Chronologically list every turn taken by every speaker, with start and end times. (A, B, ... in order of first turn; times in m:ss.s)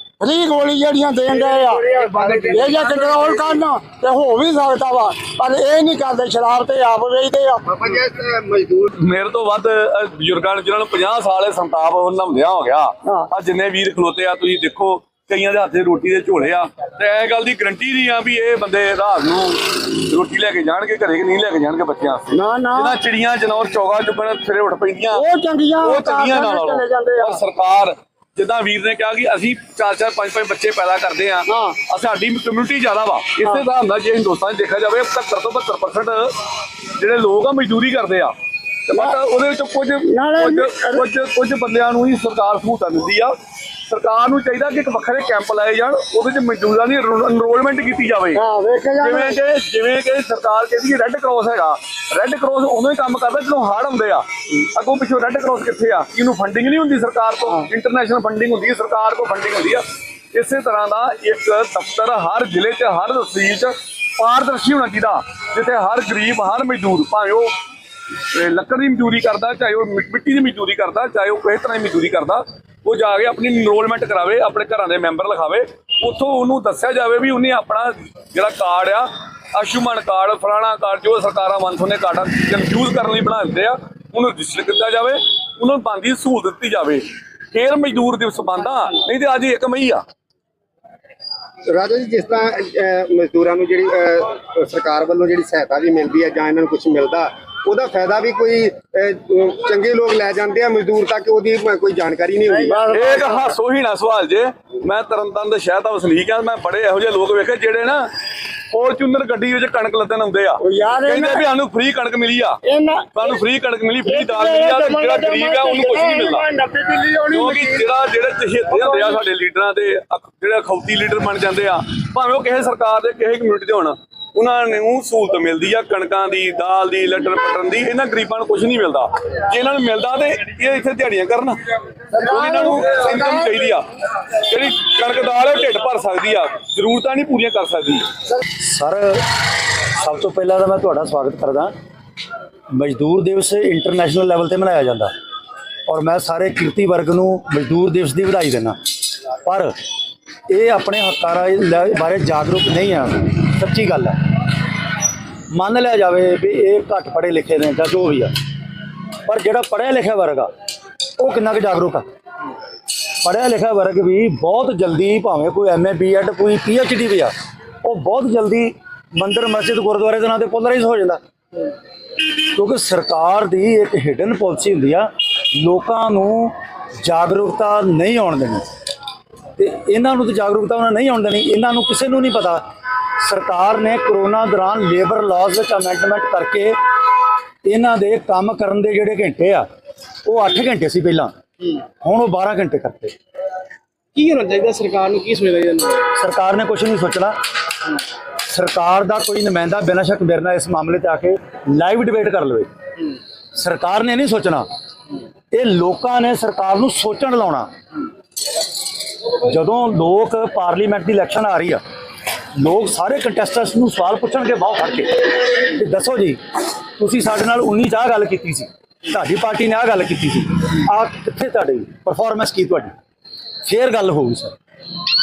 0:00.2-0:01.9 A
0:01.3-0:03.6 B
0:02.0-0:03.1 C
0:02.5-0:07.6 A
0:07.7-0:08.9 B
0:09.0-0:25.2 D
0:22.3-0:23.0 A
0:25.2-0:27.4 A
0:25.8-0:36.4 D
0:31.5-0:31.8 A
0:37.0-0:38.3 D
0:38.9-0:43.3 D
0:40.1-0:41.0 A
0:43.9-0:48.4 D
0:48.4-0:49.4 A
0:49.0-1:07.6 D
1:08.1-1:30.0 D
1:31.7-1:42.8 B
1:42.5-1:43.5 A
1:42.9-1:48.1 D
1:48.7-1:52.6 D
1:50.6-1:51.4 A
1:52.6-1:53.4 A
1:53.1-1:56.4 D
1:54.0-1:57.9 A
1:57.3-2:11.6 D
1:58.7-1:59.2 A
2:12.1-2:13.5 A
2:12.2-2:13.9 D
2:14.4-2:18.1 D
2:18.6-2:19.2 E
2:19.8-2:21.7 E
2:22.7-2:25.1 E
2:25.9-2:29.7 E
2:30.5-2:34.2 E
2:35.5-2:38.3 E
2:39.3-2:40.5 E
2:41.2-2:42.0 E
2:43.1-2:51.2 E
2:52.3-2:58.7 E
2:59.6-3:02.6 E
3:03.2-3:06.8 E
3:07.7-3:09.7 E
3:10.3-3:13.2 E
3:14.1-3:16.1 C
3:16.2-3:17.4 E
3:18.4-3:22.7 E
3:23.5-3:24.7 E
3:25.5-3:27.7 E
3:29.4-3:31.8 E
3:32.6-3:36.4 E
3:37.0-3:42.9 E
3:43.6-3:44.6 E